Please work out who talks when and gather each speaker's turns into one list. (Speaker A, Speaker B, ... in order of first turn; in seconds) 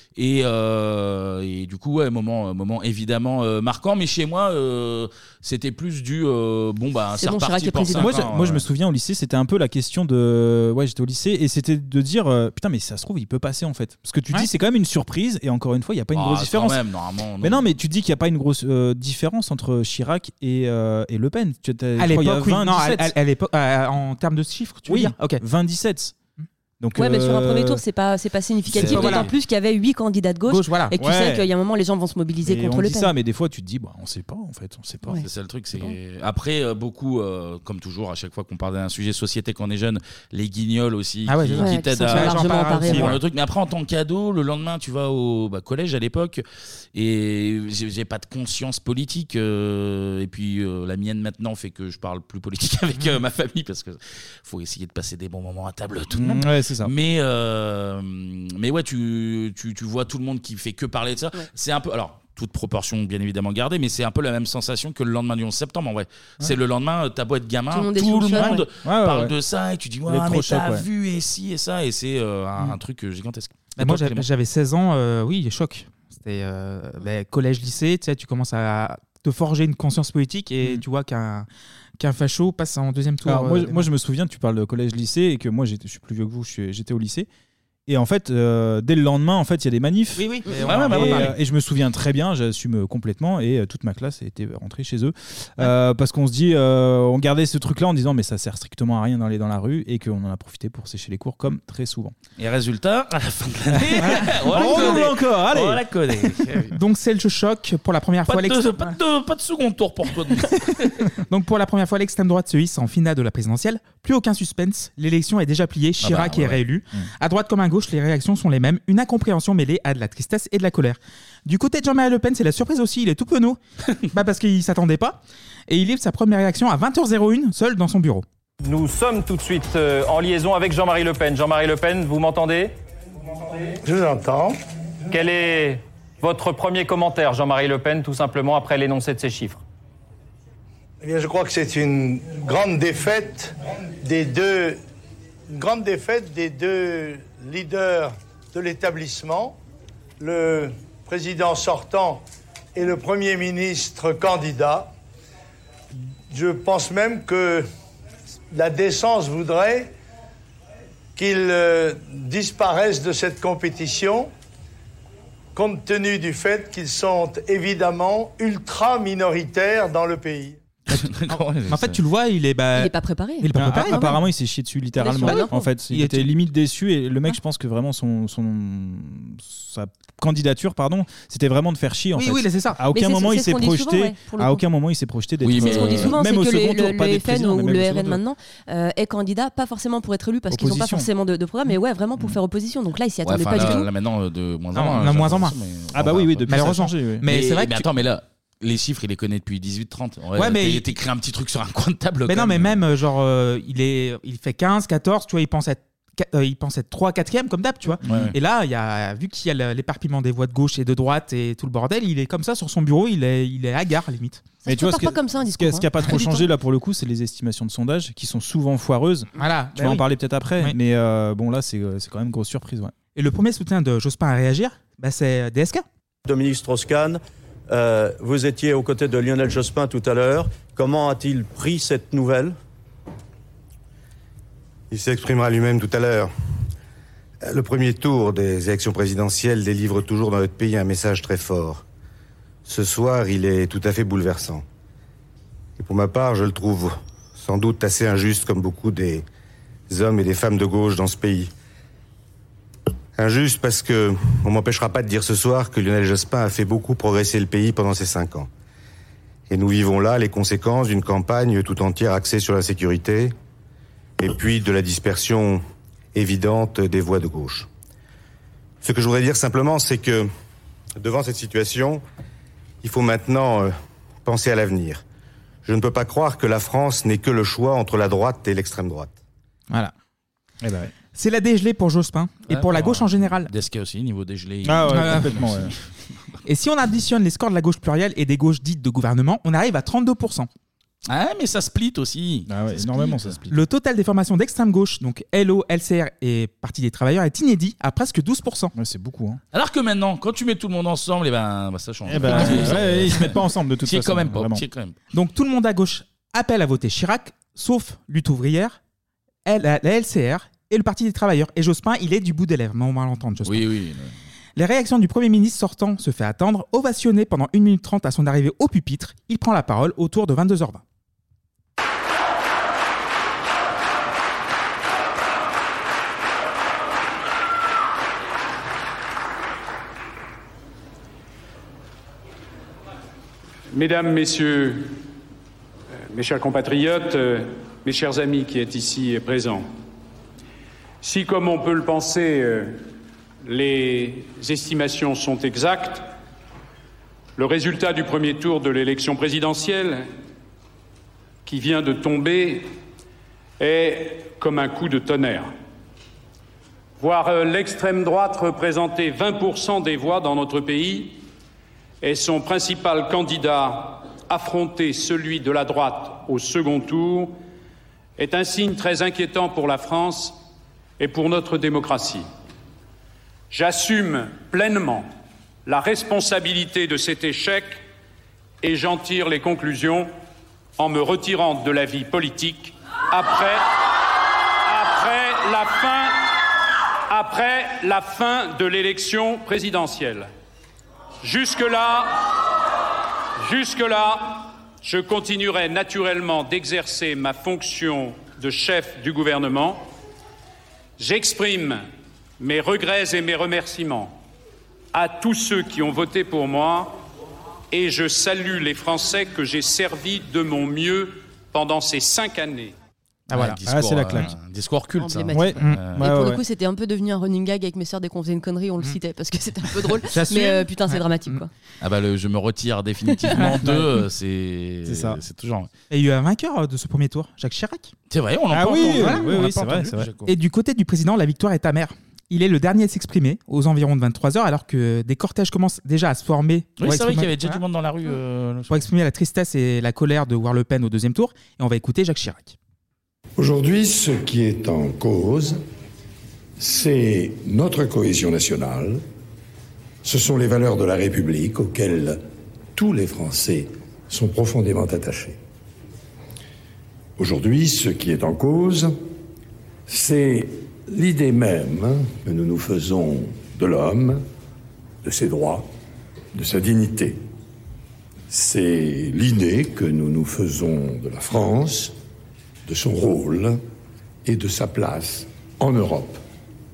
Speaker A: 0.2-8.7, 16.1-17.7, 28.8-29.3, 35.2-46.4, 46.9-74.3, 90.6-91.3, 102.4-106.7, 108.3-111.1, 116.0-116.6, 170.9-172.0, 185.4-186.2, 193.2-196.7, 197.3-202.8, 208.1-208.3, 282.5-285.9, 291.1-293.4, 299.5-303.4, 303.9-305.0, 313.4-314.1, 413.3-416.0, 421.8-425.7, 428.1-430.3, 436.8-438.8
Speaker B: 7.2-8.2, 27.0-33.1, 41.6-43.1, 67.7-68.6, 172.8-174.2, 175.0-175.6, 182.9-184.6, 185.6-193.9, 214.7-216.5, 415.0-421.5
Speaker C: 7.9-16.8, 17.4-23.1, 24.9-26.2, 26.8-27.8, 28.8-29.2, 31.0-31.5, 32.4-35.2, 56.1-56.9, 68.4-69.3, 70.1-70.9, 83.2-87.3, 87.9-102.2, 103.7-106.3, 173.6-188.2, 190.5-191.1, 195.9-197.2, 214.7-222.9, 280.6-280.9, 284.6-285.7, 292.5-293.6, 298.8-299.4, 302.1-304.6, 413.3-414.3, 415.3-416.4, 423.3-424.0, 424.9-425.2, 428.5-430.1
Speaker D: 22.0-25.4, 28.8-29.3, 30.5-31.0, 41.3-43.2, 73.8-81.5, 82.0-83.9, 90.2-91.3, 104.6-105.0, 106.7-109.0, 111.3-123.6, 124.1-128.2, 170.9-174.2, 175.2-176.3, 182.2-182.8, 194.8-195.6, 196.5-197.9, 200.3-200.8, 202.3-214.5, 219.4-220.1, 223.2-225.8, 281.1-283.5, 284.9-285.4, 286.4-290.5, 293.5-298.7, 302.4-302.7, 305.1-308.8, 309.5-313.7, 314.6-320.8, 420.1-421.4, 425.9-427.9, 428.8-429.3, 430.3-437.6, 438.7-442.6
Speaker E: 128.6-132.7, 135.1-139.6
Speaker F: 133.8-134.6, 141.0-144.8, 145.5-149.6, 150.2-152.2, 152.8-154.9, 156.3-157.7, 158.5-159.9, 161.2-164.3, 165.6-170.6
Speaker G: 226.2-232.6
Speaker H: 234.9-236.3, 237.4-241.8, 242.7-244.7, 245.8-249.2, 249.9-251.5, 253.2-258.5, 259.5-263.3, 264.2-265.6, 266.1-267.7, 268.8-270.3, 271.0-272.0, 272.8-275.0, 275.6-279.1
Speaker I: 333.7-334.9, 336.1-339.7, 341.0-342.8, 343.4-346.1, 347.4-350.1, 351.4-352.7, 353.6-355.5, 357.0-361.2, 362.0-367.4, 368.2-370.4, 371.0-372.3, 373.5-375.1, 375.7-377.8, 378.6-380.1, 380.8-383.7, 384.6-386.2, 387.1-390.3, 391.2-392.2, 393.4-399.9, 401.0-401.9, 402.4-404.2, 404.9-407.0, 407.7-412.8
Speaker J: 443.4-445.6, 446.6-449.0, 450.0-452.2, 452.8-455.4, 457.2-458.9, 459.9-464.2, 465.0-465.7, 466.3-467.2, 468.3-471.9, 472.7-473.6, 474.2-476.2